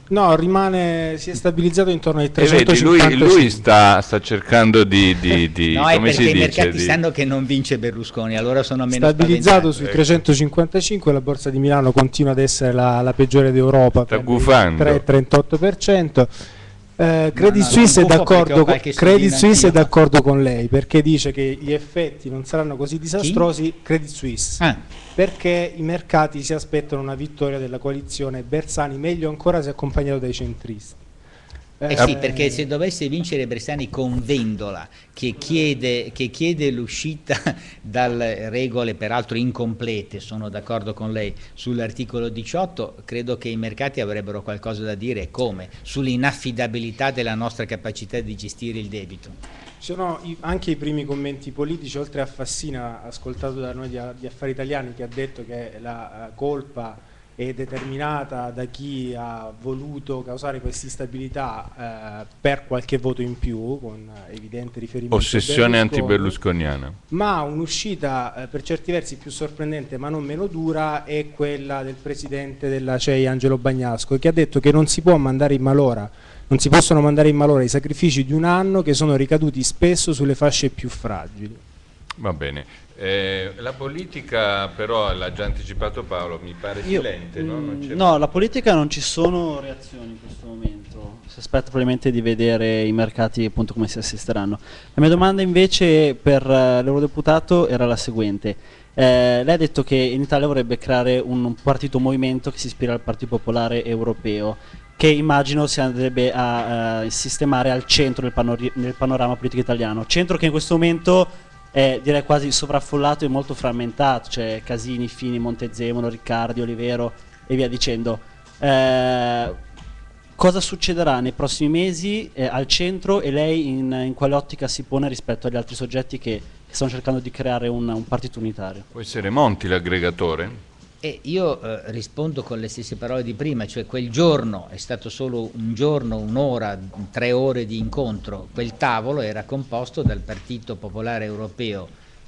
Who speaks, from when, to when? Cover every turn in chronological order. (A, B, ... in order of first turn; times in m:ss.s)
0:00.1-0:03.6 A
0:02.4-0:07.0 B
0:05.7-0:09.8 C
0:08.9-0:16.4 A
0:14.1-0:15.0 B
0:17.0-0:31.0 A
0:17.3-0:19.9 C
0:23.2-0:23.5 C
0:31.8-0:32.6 A
0:31.9-0:49.4 C
0:49.8-1:06.3 A
1:05.1-1:07.0 B
1:07.1-1:21.6 A
1:22.2-1:28.3 B
1:26.8-1:59.6 D
2:00.4-2:08.8 D
2:08.9-2:10.6 B
2:11.0-2:21.9 C